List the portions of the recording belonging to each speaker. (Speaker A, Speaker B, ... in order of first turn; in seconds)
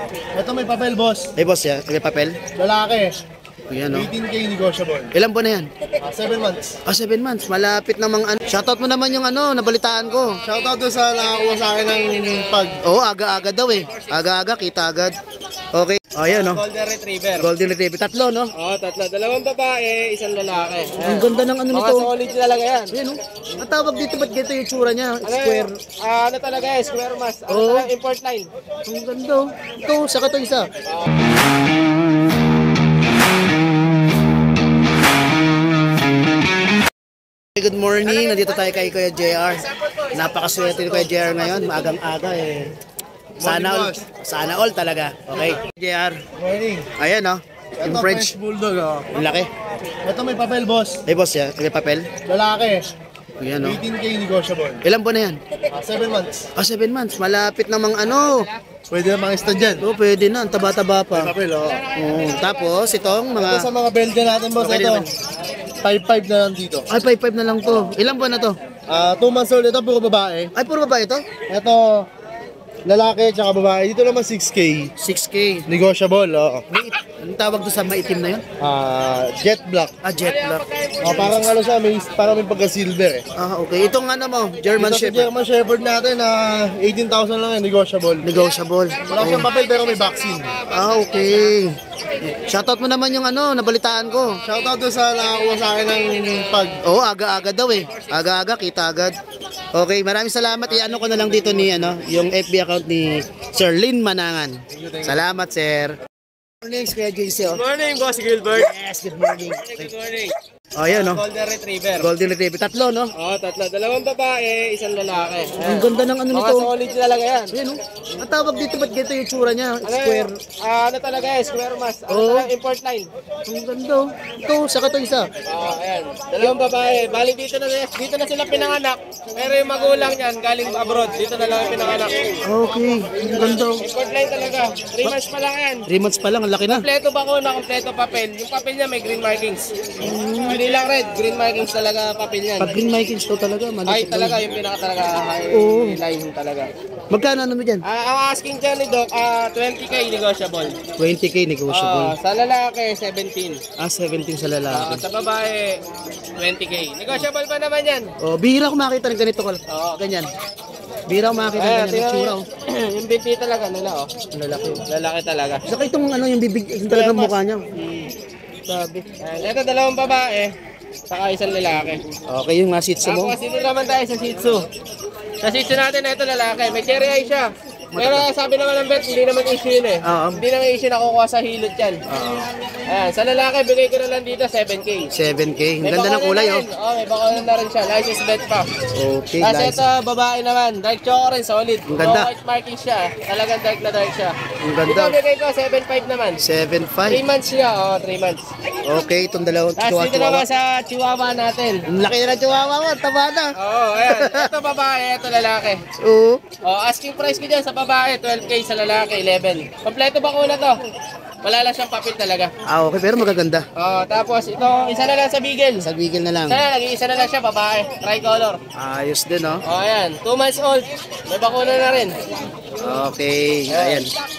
Speaker A: 0.3-1.3, 2.5-3.1, 3.9-5.1, 6.0-6.8, 10.4-12.8, 43.4-44.0, 46.4-46.9, 47.8-49.1, 50.0-51.0, 52.2-52.9, 53.6-54.8, 55.7-56.5, 58.9-59.9, 61.1-61.9, 63.3-65.0, 65.8-66.8, 68.9-70.5, 71.5-72.0, 72.8-74.9, 75.7-76.7, 78.6-80.0, 81.0-83.2, 84.8-88.3, 89.1-90.7, 94.4-96.8, 101.0-101.5, 104.7-105.2
Speaker B: 1.4-2.4, 3.7-4.1, 5.1-5.7, 6.8-10.4, 12.8-15.1, 15.7-16.6, 17.4-18.5, 21.0-22.1, 22.9-25.7, 27.5-27.9, 28.9-30.7, 37.5-42.8, 43.4-46.2, 47.0-48.3, 49.1-49.5, 51.1-52.1, 53.4-53.8, 54.8-55.4, 56.5-58.5, 59.8-61.3, 61.9-63.7, 64.6-65.1, 66.9-68.5, 70.5-71.2, 75.0-75.7, 76.7-78.4, 80.0-81.4, 83.3-85.3, 88.2-89.5, 90.7-94.4, 96.8-99.1, 99.7-105.9, 106.6-107.6, 108.5-109.9, 110.8-111.2, 112.0-113.1, 115.6-116.7, 117.5-120.3, 122.1-122.5, 123.5-125.3, 132.4-133.8, 135.9-136.9, 140.0-140.6, 142.6-144.4, 145.5-146.0, 147.1-147.8, 151.0-152.1, 153.8-155.0, 158.2-160.3, 161.1-162.4, 164.3-164.8, 165.7-167.6, 168.7-169.1, 172.3-173.3, 177.9-178.3, 180.0-180.4, 182.1-182.5, 185.1-186.7, 188.9-189.8, 191.9-192.3, 194.6-195.2, 196.4-197.2, 198.8-200.4, 201.9-203.5, 204.0-204.5, 206.0-206.4, 212.7-213.6, 215.8-216.6, 218.7-219.6, 222.8-224.1
Speaker C: 16.3-17.5, 18.6-22.9, 25.2-28.5, 61.6-63.3, 80.2-81.4, 89.2-89.8, 90.7-91.5, 107.4-108.7, 109.5-110.3, 110.9-112.1, 113.2-117.5, 119.8-123.1, 125.5-132.2, 133.8-135.8, 136.7-139.7, 140.4-142.7, 143.9-146.7, 147.8-150.8, 151.7-153.6, 154.7-155.8, 156.4-158.1, 159.7-160.0, 161.6-164.1, 164.9-165.6, 166.9-168.1, 169.2-170.5, 171.1-172.0, 173.0-174.7, 175.4-182.0, 182.9-185.1, 185.8-188.7, 189.4-194.3, 194.9-196.4, 197.1-198.5, 199.8-201.8, 203.6-205.8, 206.6-210.8, 211.4-212.5, 213.8-215.9, 216.5-218.6, 219.7-222.1, 223.7-224.1